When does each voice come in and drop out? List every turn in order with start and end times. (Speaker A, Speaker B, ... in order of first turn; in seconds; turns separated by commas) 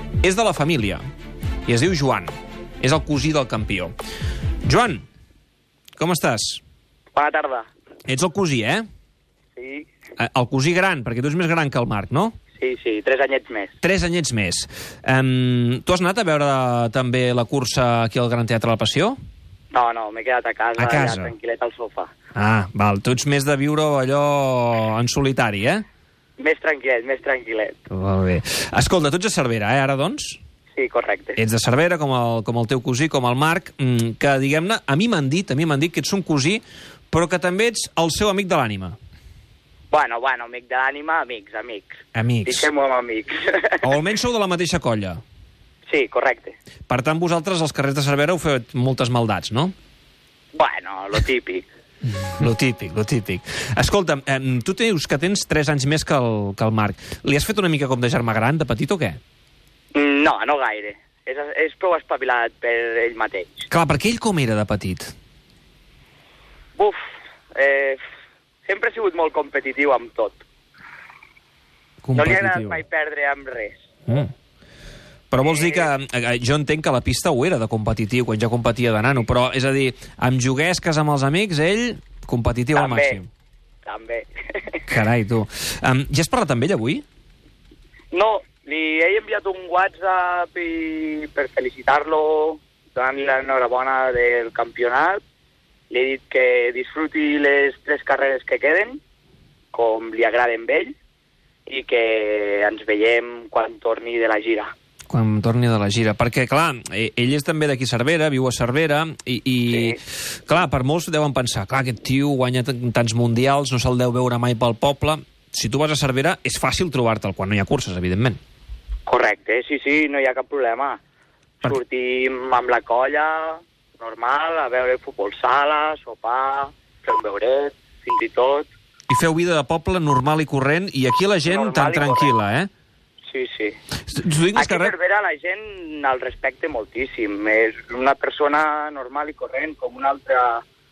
Speaker A: 0.2-1.0, Speaker A: 1.7-3.9, Speaker A: 4.6-5.0, Speaker A: 6.0-6.6, Speaker B: 7.1-7.7, Speaker A: 8.1-8.8, Speaker B: 9.6-9.9, Speaker A: 10.2-12.3, Speaker B: 12.6-13.8, Speaker A: 13.8-19.1, Speaker B: 19.7-22.1, Speaker A: 20.8-21.3, Speaker A: 22.3-25.8, Speaker B: 26.4-27.8, Speaker A: 27.9-30.4, Speaker B: 30.7-31.4, Speaker A: 31.4-39.0, Speaker B: 39.9-43.9, Speaker A: 42.1-42.7, Speaker A: 43.8-45.2, Speaker B: 45.9-46.5, Speaker A: 46.9-49.7, Speaker B: 50.5-51.6, Speaker A: 52.2-59.2, Speaker B: 59.9-63.7, Speaker A: 63.7-65.1, Speaker B: 67.5-68.0, Speaker B: 68.7-70.4, Speaker A: 72.0-72.8, Speaker B: 72.1-73.8, Speaker A: 75.3-83.3, Speaker B: 75.4-75.9, Speaker B: 82.7-83.2, Speaker B: 83.8-84.8, Speaker A: 84.9-87.0, Speaker B: 88.1-95.2, Speaker B: 95.9-99.0, Speaker B: 99.7-100.9, Speaker B: 101.7-104.7, Speaker A: 105.1-118.4, Speaker B: 109.7-110.0, Speaker B: 119.1-121.0, Speaker B: 121.6-128.7, Speaker A: 129.1-132.7, Speaker B: 131.4-132.3, Speaker B: 133.2-133.8, Speaker A: 134.1-134.9, Speaker B: 134.5-140.6